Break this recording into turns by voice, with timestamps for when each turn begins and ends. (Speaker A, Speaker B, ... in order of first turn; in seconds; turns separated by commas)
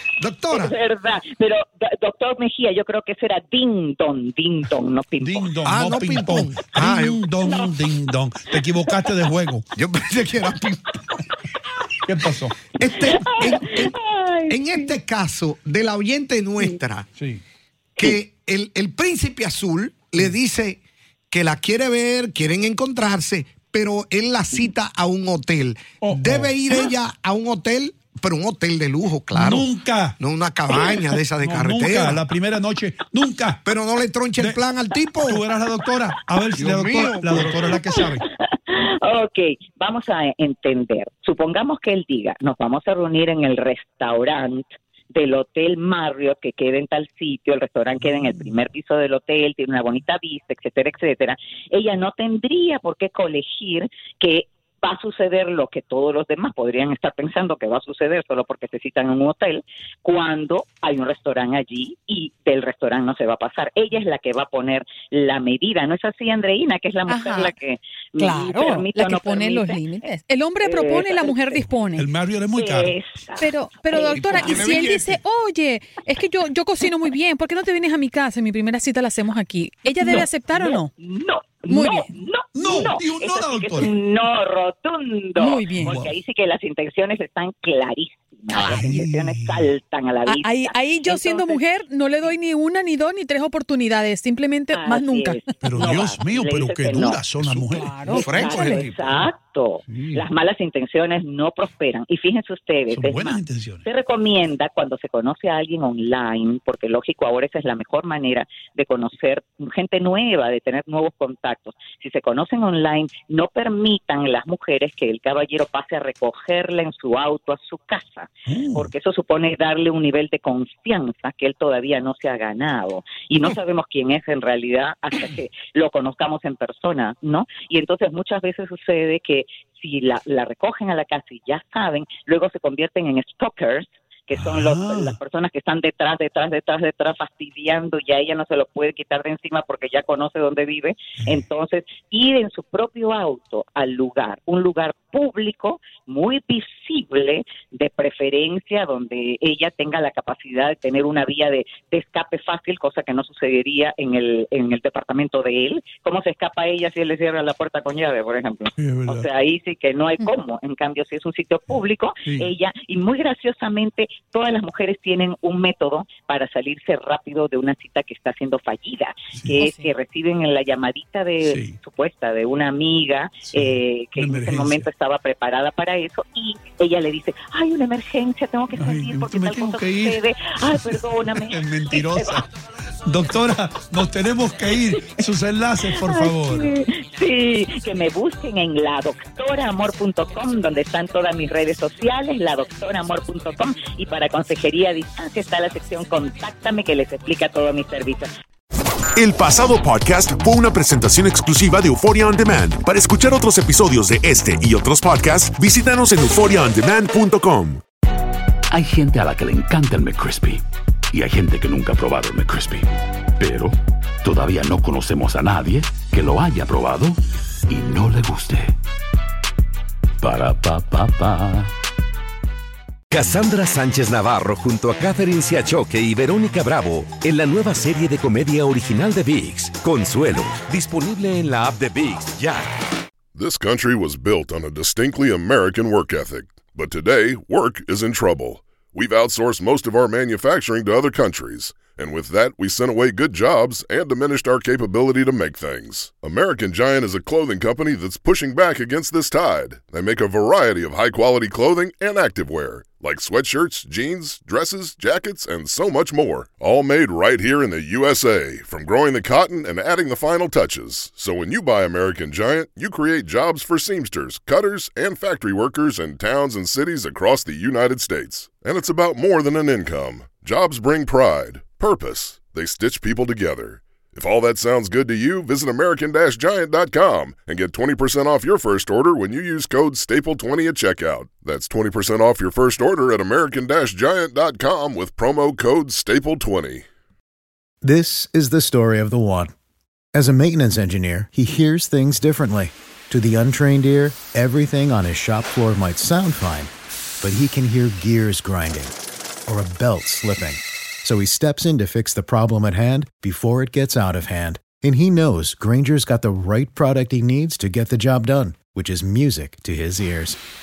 Speaker A: 0.2-0.7, Speaker B: 0.5-5.5, Speaker C: 5.2-9.7, Speaker A: 5.7-7.2, Speaker B: 7.5-7.7, Speaker A: 9.8-11.0, Speaker C: 12.1-12.6, Speaker A: 12.8-13.9, Speaker B: 13.0-14.9, Speaker A: 14.5-17.1, Speaker A: 18.0-32.2, Speaker C: 26.0-26.6, Speaker C: 29.4-30.2, Speaker C: 31.4-33.6, Speaker A: 33.6-35.4, Speaker C: 35.2-38.2, Speaker A: 36.5-37.6, Speaker B: 38.0-71.4, Speaker D: 67.1-67.5, Speaker D: 68.2-72.1, Speaker C: 72.0-72.9, Speaker B: 72.6-74.6, Speaker D: 73.4-80.9, Speaker A: 74.0-75.2, Speaker B: 80.0-91.6, Speaker D: 81.7-82.1, Speaker C: 82.5-83.9, Speaker D: 85.4-85.9, Speaker C: 85.8-86.1, Speaker C: 88.7-89.6, Speaker D: 90.2-95.9, Speaker B: 94.7-97.2, Speaker C: 95.6-99.3, Speaker A: 97.3-99.0, Speaker D: 97.7-98.5, Speaker B: 98.1-182.4, Speaker C: 99.9-100.2, Speaker C: 102.9-103.8, Speaker C: 118.5-118.9, Speaker C: 134.3-135.2, Speaker C: 158.8-159.2, Speaker D: 169.6-169.9, Speaker C: 171.4-171.8, Speaker C: 173.5-174.9, Speaker C: 178.8-182.4, Speaker C: 183.1-186.7, Speaker B: 185.9-198.3, Speaker E: 199.2-207.8, Speaker F: 208.7-212.9, Speaker F: 213.4-217.2, Speaker F: 217.7-218.7, Speaker F: 220.2-221.7, Speaker G: 223.1-232.6, Speaker H: 233.4-286.8, Speaker C: 244.4-245.5, Speaker C: 246.0-247.4, Speaker C: 249.2-250.1, Speaker C: 251.4-252.8, Speaker C: 253.8-256.0, Speaker C: 256.7-257.0, Speaker C: 257.5-261.4, Speaker C: 263.5-266.7, Speaker C: 267.4-268.9, Speaker C: 271.7-272.4, Speaker C: 275.9-276.3, Speaker C: 277.7-278.9, Speaker C: 279.7-282.1, Speaker C: 284.2-286.0, Speaker I: 287.8-289.5, Speaker I: 290.1-296.7, Speaker I: 297.2-298.9, Speaker I: 299.5-310.4